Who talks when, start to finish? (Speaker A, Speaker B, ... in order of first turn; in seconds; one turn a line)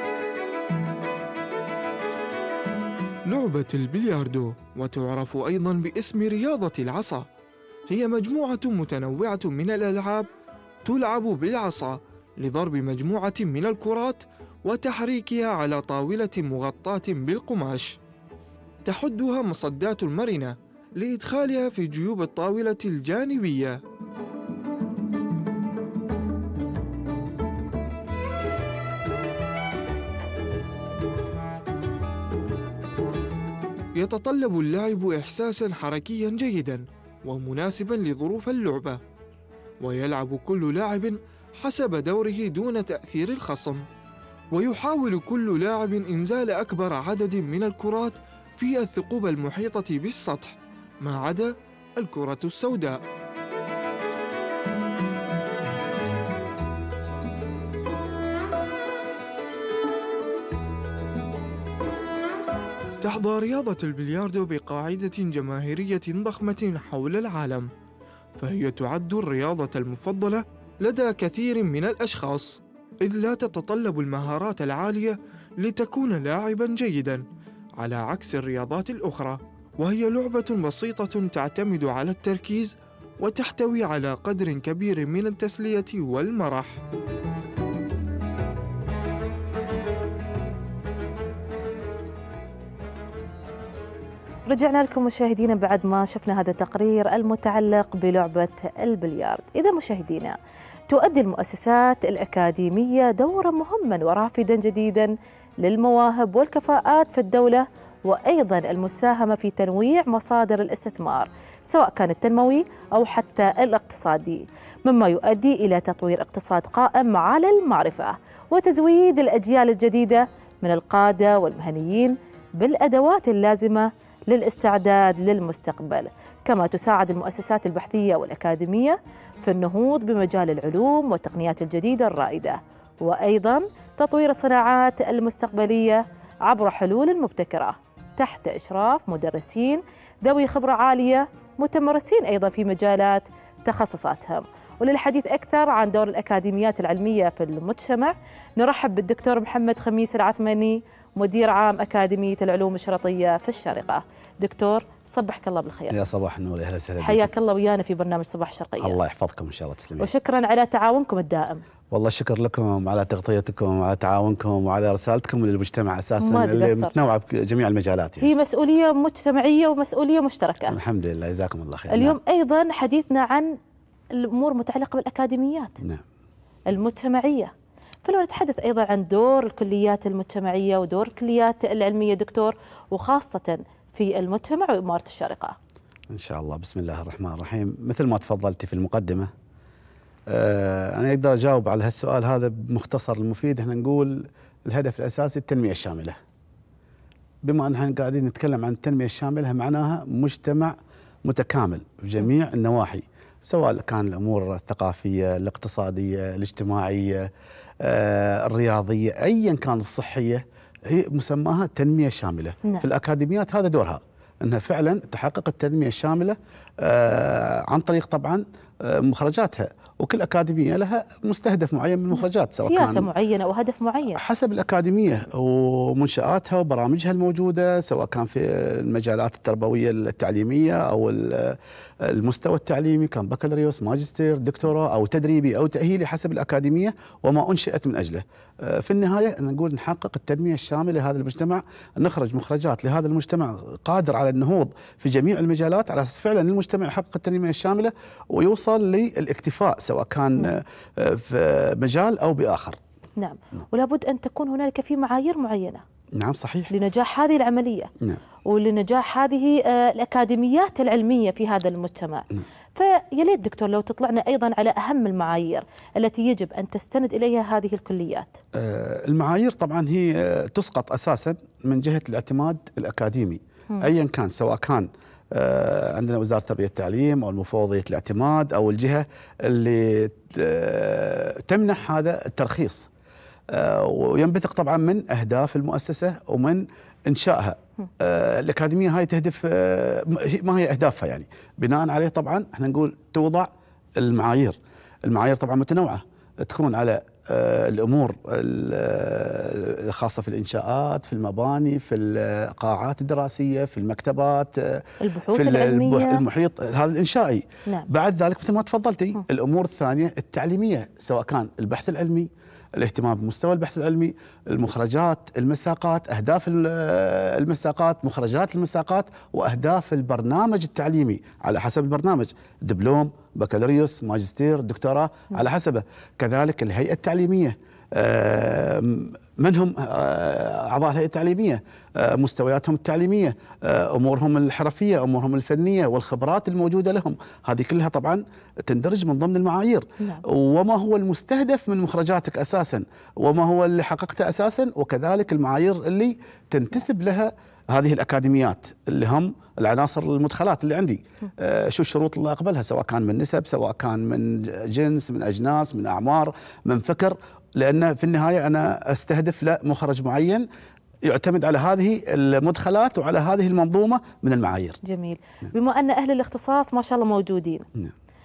Speaker A: 3.3-7.3
Speaker A: 7.9-10.3
Speaker A: 10.8-18.0
Speaker A: 18.9-23.8
Speaker A: 34.0-39.0
Speaker A: 39.8-43.8
Speaker A: 44.5-53.0
Speaker A: 63.0-67.7
Speaker A: 68.4-77.2
Speaker A: 77.8-86.8
Speaker B: 94.5-100.4
Speaker B: 100.9-156.0
Speaker C: 155.9-157.3
Speaker B: 157.0-159.0
Speaker C: 158.8-160.1
Speaker B: 160.0-161.6
Speaker C: 161.9-168.3
Speaker B: 166.2-166.9
Speaker B: 168.2-170.8
Speaker C: 170.7-172.2
Speaker B: 171.9-173.6
Speaker B: 174.1-175.8
Speaker B: 176.7-177.5
Speaker B: 178.0-185.6
Speaker C: 186.1-189.3
Speaker C: 190.3-196.2
Speaker C: 197.4-223.1
Speaker B: 222.6-224.2
Speaker C: 224.2-252.8
Speaker B: 253.2-255.8
Speaker C: 256.1-256.7
Speaker B: 256.7-257.9
Speaker B: 258.4-268.4
Speaker C: 268.5-282.9
Speaker C: 283.5-360.5
Speaker B: 305.0-306.2
Speaker C: 361.1-364.8
Speaker B: 364.8-367.7